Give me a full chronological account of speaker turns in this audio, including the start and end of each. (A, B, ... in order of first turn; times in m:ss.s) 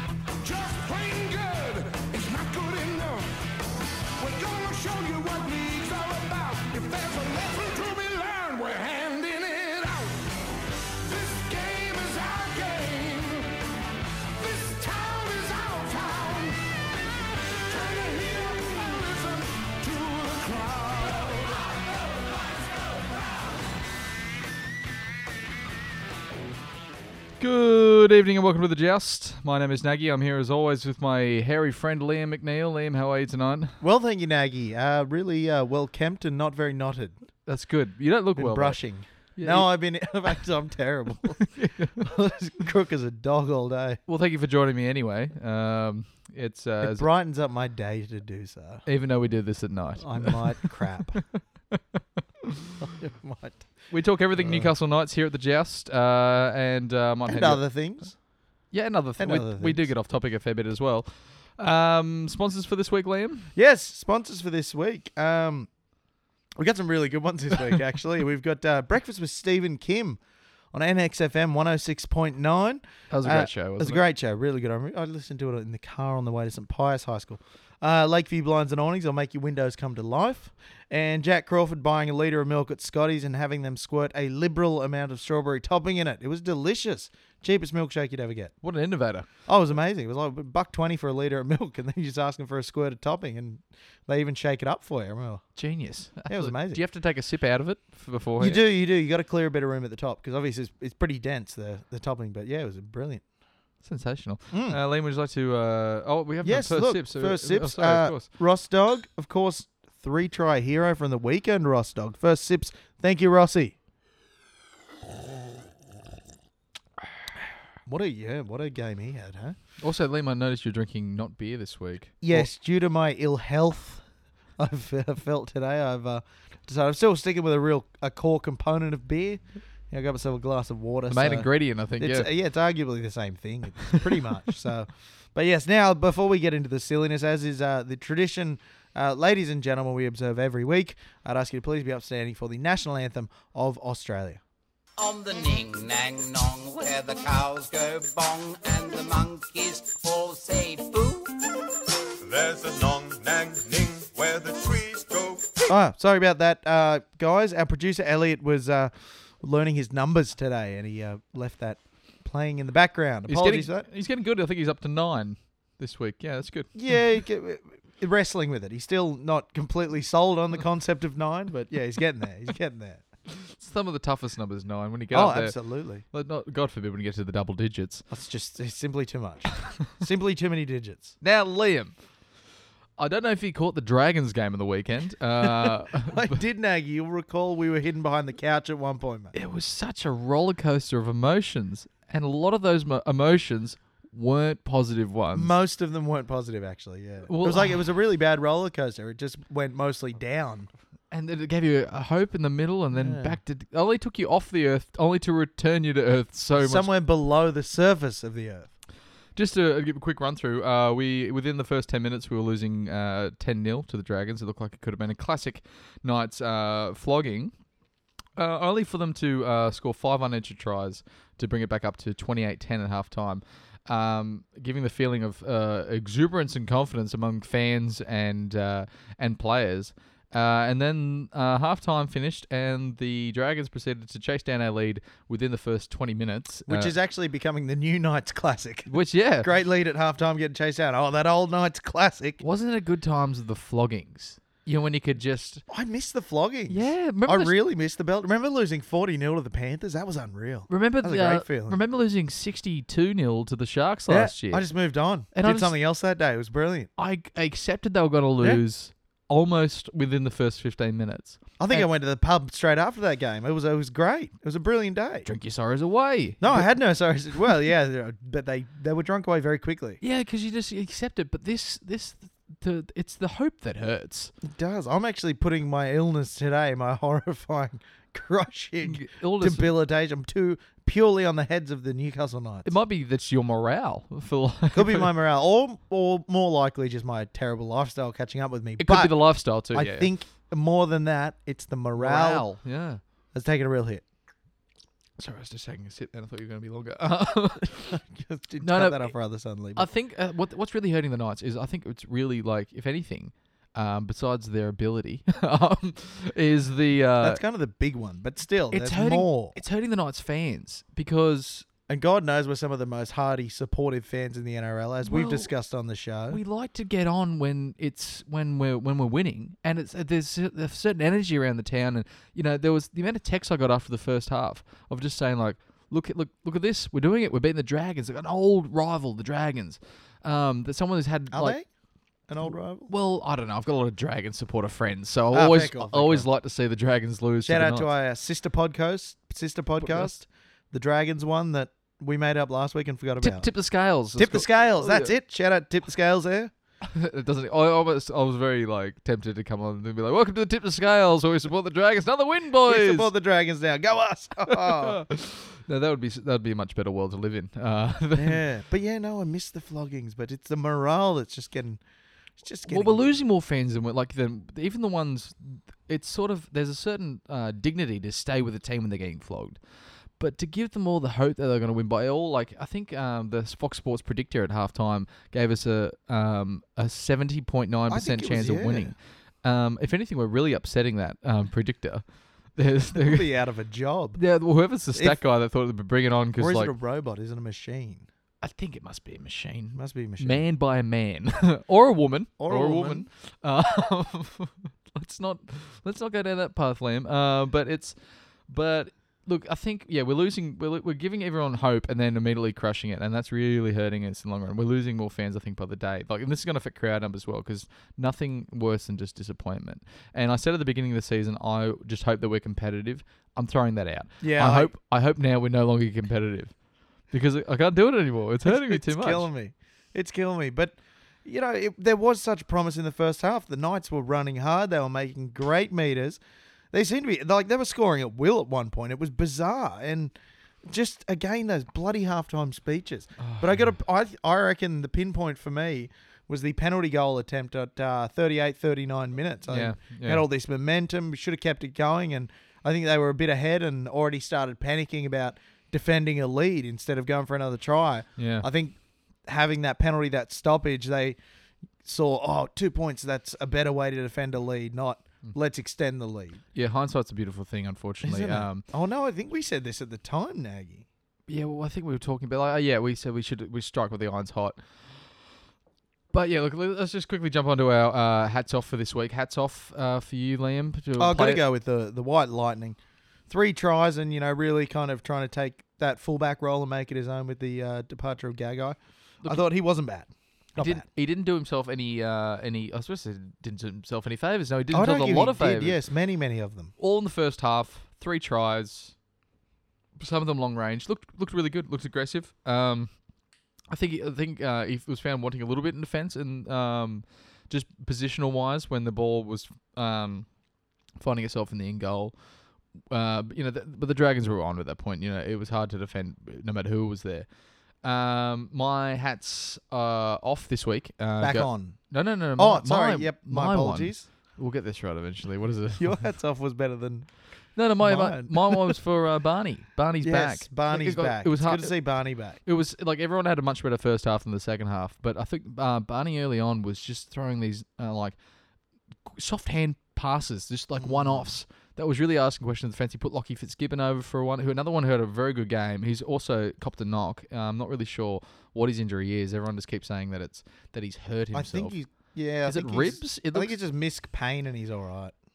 0:00.4-0:03.5 A
0:04.2-0:10.3 A
0:10.9-0:13.6 A
0:14.3-0:21.7 A
0:27.4-0:33.8 B
0:33.8-0:37.1 C
0:37.4-0:38.8 B
0:38.4-0:41.4 C
0:39.4-0:39.7 B
0:41.4-0:42.1 B
0:42.0-0:44.0 C
0:44.1-0:47.1 B
0:46.8-0:48.8 C
0:48.8-0:51.0 B
0:50.0-0:51.2 C
0:51.7-0:52.9 B
0:52.8-0:53.7 C
0:53.9-0:57.6 B
0:54.4-0:54.7 C
0:57.3-0:58.2 C
0:58.7-1:03.5 B
0:59.2-0:59.8 C
1:03.6-1:05.7 C
1:06.6-1:10.2 C
1:10.7-1:28.5 C
1:13.1-1:14.0 B
1:28.6-1:29.3 B
1:29.4-1:35.4 C
1:35.6-1:38.6 B
1:36.2-1:36.8 C
1:38.4-1:43.2 C
1:43.8-1:48.3 B
1:44.5-1:44.8 C
1:46.4-1:53.8 C
1:57.9-1:59.6 C
1:59.8-2:02.5 B
2:02.2-2:04.0 C
2:04.6-2:24.4 C
2:11.1-2:12.3 B
2:25.0-2:31.4 D
2:32.2-2:35.6 E
2:35.7-2:43.9 C
2:43.3-2:46.9 B
2:46.8-2:53.0 C
2:53.3-2:55.5 B
2:55.1-2:56.0 C
2:56.1-2:58.0 B
2:58.1-3:01.1 C
3:01.2-3:01.9 B
3:03.0-3:06.3 B
3:05.4-3:09.3 C
3:09.3-3:15.5 B
3:15.3-3:20.7 C
3:17.2-3:17.8 B
3:21.1-3:26.9 B
3:22.9-3:23.4 C
3:26.6-3:28.7 C
3:29.3-3:37.5 B
3:38.4-3:56.9 B
3:56.7-4:02.4 C
3:58.9-3:59.5 B
4:02.4-4:05.6 B
4:05.7-4:11.8 C
4:06.7-4:07.5 B
4:10.7-4:14.7 B
4:14.1-4:16.9 C
4:15.3-4:15.7 B
4:17.0-4:21.9 B
4:21.6-4:25.3 C
4:25.2-4:26.7 B
4:26.4-4:30.0 C
4:30.0-4:34.3 B
4:34.4-4:42.7 C
4:38.8-4:39.7 B
4:42.6-4:45.1 B
4:44.7-4:52.5 C
4:48.8-4:50.1 B
4:52.0-4:53.0 B
4:53.3-4:54.0 C
4:55.2-4:58.0 B
4:57.9-4:59.9 C
4:58.6-4:59.1 B
4:59.8-5:07.4 B
5:07.2-5:09.6 C
5:08.7-5:11.7 B
5:11.9-5:16.4 C
5:15.0-5:15.5 B
5:16.3-5:31.6 B
5:31.3-5:31.7 C
5:32.3-5:32.9 C
5:32.9-5:37.9 B
5:35.3-5:36.3 C
5:37.4-5:43.5 C
5:39.8-5:40.1 B
5:43.2-5:45.1 B
5:44.2-5:46.5 C
5:46.8-5:53.1 B
5:52.7-5:55.0 C
5:54.5-5:58.4 B
5:58.2-6:01.8 C
6:02.4-6:03.0 C
6:02.7-6:09.6 B
6:10.2-6:23.3 B
6:17.9-6:18.9 C
6:22.9-6:24.2 C
6:24.2-6:26.7 B
6:26.4-6:28.1 C
6:28.4-6:56.6 B
6:29.8-6:30.4 C
6:32.4-6:33.1 C
6:54.2-6:54.7 C
6:57.1-6:59.3 B
6:58.4-7:06.2 C
7:06.7-7:10.1 C
7:10.6-7:31.2 C
7:13.2-7:13.7 B
7:19.5-7:20.2 B
7:28.2-7:28.5 B
7:31.8-7:36.4 C
7:36.5-7:38.6 B
7:38.0-7:40.8 C
7:41.3-7:44.7 B
7:46.1-7:51.4 B
7:51.0-7:52.8 C
7:53.3-8:00.8 C
8:00.6-8:05.8 B
8:04.7-8:06.7 C
8:06.8-8:09.0 B
8:10.0-8:13.0 B
8:13.7-8:20.3 B
8:21.0-8:22.2 B
8:22.9-8:27.3 B
8:27.8-8:36.1 B
8:31.2-8:34.1 C
8:35.8-8:37.1 C
8:37.6-8:41.8 B
8:37.8-8:38.8 C
8:40.0-8:42.4 C
8:42.5-8:48.2 B
8:49.1-9:01.8 B
8:50.8-8:51.3 C
9:01.3-9:05.1 C
9:02.5-9:03.6 B